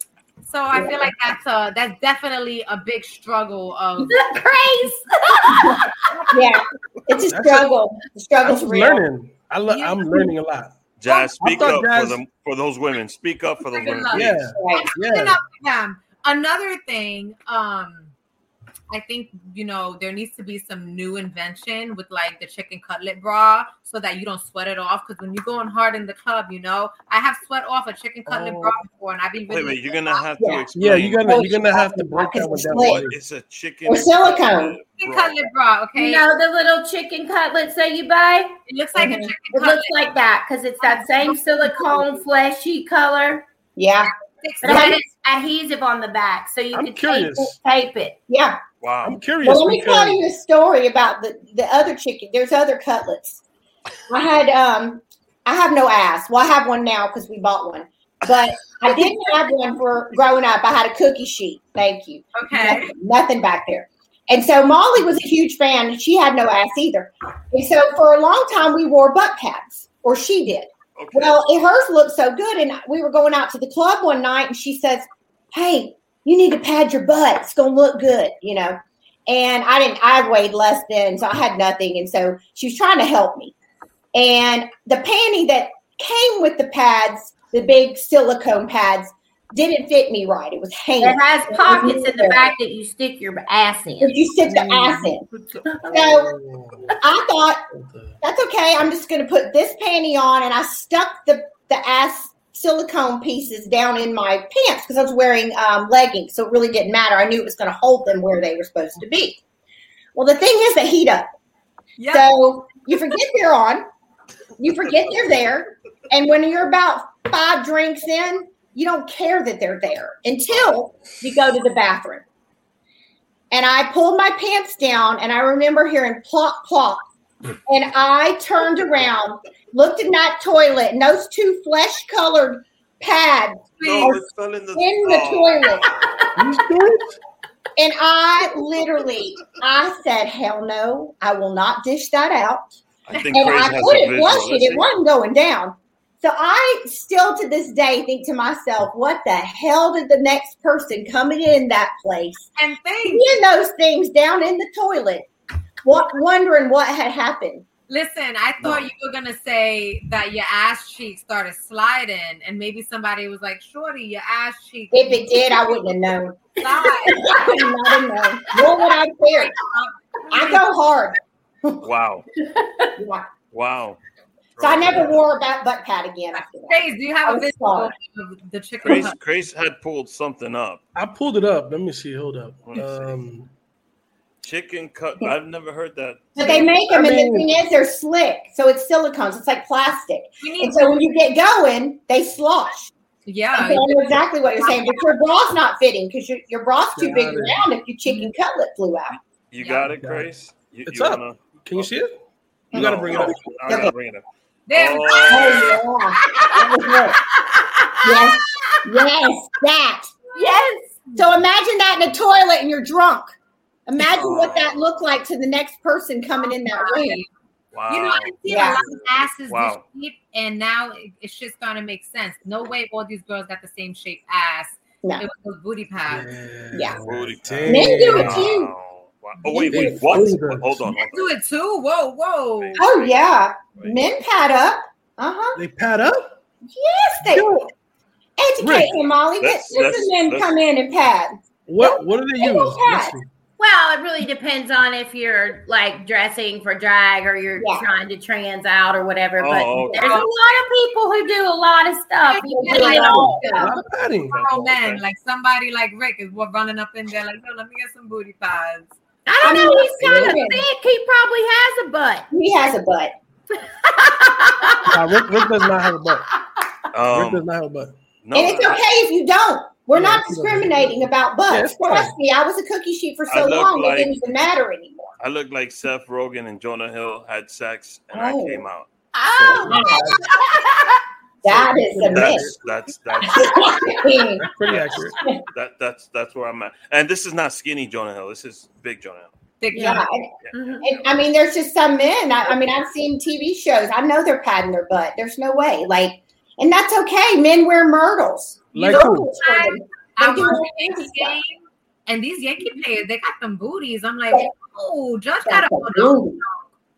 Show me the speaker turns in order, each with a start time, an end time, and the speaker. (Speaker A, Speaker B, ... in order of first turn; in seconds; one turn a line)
Speaker A: 0.4-4.3
Speaker B: 0.7-1.1
Speaker C: 4.0-6.0
Speaker B: 6.3-9.1
Speaker D: 7.3-7.7
Speaker D: 8.4-10.8
Speaker A: 9.7-10.3
Speaker E: 11.0-14.5
Speaker D: 11.4-12.2
Speaker A: 13.6-18.1
Speaker D: 14.1-15.4
Speaker B: 14.6-14.9
Speaker A: 18.9-30.2
Speaker D: 28.3-28.8
Speaker E: 29.5-31.3
Speaker B: 30.4-30.7
Speaker D: 30.8-33.2
Speaker B: 31.2-33.1
Speaker E: 32.7-35.5
Speaker B: 33.9-34.8
Speaker A: 35.0-36.2
Speaker C: 36.0-38.6
Speaker A: 38.7-40.0
Speaker B: 39.0-39.3
Speaker C: 39.5-43.5
Speaker A: 40.8-42.1
Speaker B: 43.8-44.1
Speaker A: 44.1-45.0
Speaker C: 44.6-48.2
Speaker B: 44.6-45.0
Speaker D: 46.7-47.6
Speaker B: 48.3-48.6
Speaker E: 48.8-49.2
Speaker D: 49.0-50.2
Speaker B: 49.4-53.4
Speaker B: 54.1-83.5
Speaker A: 62.4-62.9
Speaker E: 71.0-71.4
Speaker B: 84.1-92.5
Speaker C: 91.0-94.2
Speaker B: 94.0-95.3
Speaker D: 94.5-97.0
Speaker C: 95.7-95.9
Speaker B: 95.9-96.3
Speaker B: 97.0-97.6
Speaker D: 97.7-98.2
Speaker B: 98.2-109.4
Speaker B: 110.2-111.3
Speaker A: 112.0-112.3
Speaker B: 112.1-113.8
Speaker B: 114.6-122.2
Speaker E: 120.5-121.0
Speaker B: 123.5-127.0
Speaker B: 127.7-135.9
Speaker A: 133.8-134.2
Speaker E: 133.8-136.3
Speaker D: 136.4-137.2
Speaker B: 137.8-142.8
Speaker E: 143.1-144.8
Speaker B: 143.3-152.5
Speaker A: 152.6-153.3
Speaker B: 153.1-155.3
Speaker B: 155.8-157.7
Speaker A: 157.9-165.8
Speaker B: 164.9-166.4
Speaker A: 166.6-167.5
Speaker C: 167.1-167.7
Speaker B: 167.1-169.6
Speaker A: 169.5-170.6
Speaker B: 170.3-171.8
Speaker E: 171.8-172.3
Speaker C: 172.4-172.9
Speaker B: 173.0-173.3
Speaker E: 173.5-174.0
Speaker E: 174.6-175.2
Speaker B: 174.6-177.9
Speaker A: 176.7-179.2
Speaker E: 178.8-180.8
Speaker D: 180.9-183.5
Speaker E: 182.7-183.1
Speaker E: 184.4-186.7
Speaker B: 186.4-192.9
Speaker D: 186.8-187.5
Speaker A: 190.4-191.0
Speaker A: 193.3-195.1
Speaker B: 193.6-199.2
Speaker D: 197.0-197.6
Speaker A: 198.1-198.3
Speaker E: 199.5-201.9
Speaker A: 199.6-199.9
Speaker D: 199.9-202.2
Speaker D: 202.7-203.5
Speaker B: 202.7-203.9
Speaker E: 202.7-204.2
Speaker A: 204.7-205.8
Speaker E: 204.8-205.8
Speaker B: 205.3-207.2
Speaker C: 207.4-208.8
Speaker B: 208.0-210.1
Speaker C: 210.3-210.9
Speaker A: 210.4-211.3
Speaker B: 211.2-213.4
Speaker B: 213.9-217.2
Speaker E: 214.0-214.8
Speaker A: 216.7-217.3
Speaker E: 217.7-219.8
Speaker A: 217.9-226.3
Speaker B: 218.5-218.8
Speaker D: 226.1-228.5
Speaker B: 226.7-227.0
Speaker E: 227.1-231.4
Speaker B: 227.7-228.7
Speaker B: 229.5-230.1
Speaker D: 229.6-230.9
Speaker A: 231.0-233.0
Speaker E: 232.6-234.0
Speaker B: 232.8-235.6
Speaker D: 235.6-236.3
Speaker B: 236.7-237.7
Speaker D: 237.3-237.7
Speaker B: 238.4-243.2
Speaker D: 238.6-238.9
Speaker E: 239.4-240.6
Speaker D: 241.7-243.3
Speaker C: 243.6-253.5
Speaker B: 247.6-247.9
Speaker E: 249.4-250.2
Speaker A: 249.9-250.3
Speaker A: 252.2-253.7
Speaker B: 252.5-253.8
Speaker D: 253.5-254.4
Speaker E: 253.9-255.0
Speaker A: 254.3-258.9
Speaker C: 259.3-262.3
Speaker B: 259.4-260.6
Speaker D: 260.0-260.4
Speaker B: 262.3-263.1
Speaker C: 263.8-265.0
Speaker D: 264.9-266.3
Speaker E: 266.9-267.4
Speaker D: 267.1-267.9
Speaker E: 268.2-268.8
Speaker B: 268.3-275.1
Speaker D: 269.9-272.1
Speaker E: 273.3-274.2
Speaker E: 275.2-279.9
Speaker B: 278.1-278.6
Speaker C: 279.1-281.0
Speaker B: 279.6-280.2
Speaker D: 279.7-280.2
Speaker B: 281.4-282.5
Speaker D: 281.4-282.6
Speaker E: 282.1-284.0
Speaker B: 283.2-284.5
Speaker D: 284.4-285.2
Speaker E: 284.6-289.3
Speaker A: 289.6-290.1
Speaker B: 289.7-290.3
Speaker C: 290.5-290.8
Speaker B: 290.8-301.4
Speaker D: 298.8-299.3
Speaker A: 299.4-306.6
Speaker B: 305.5-306.4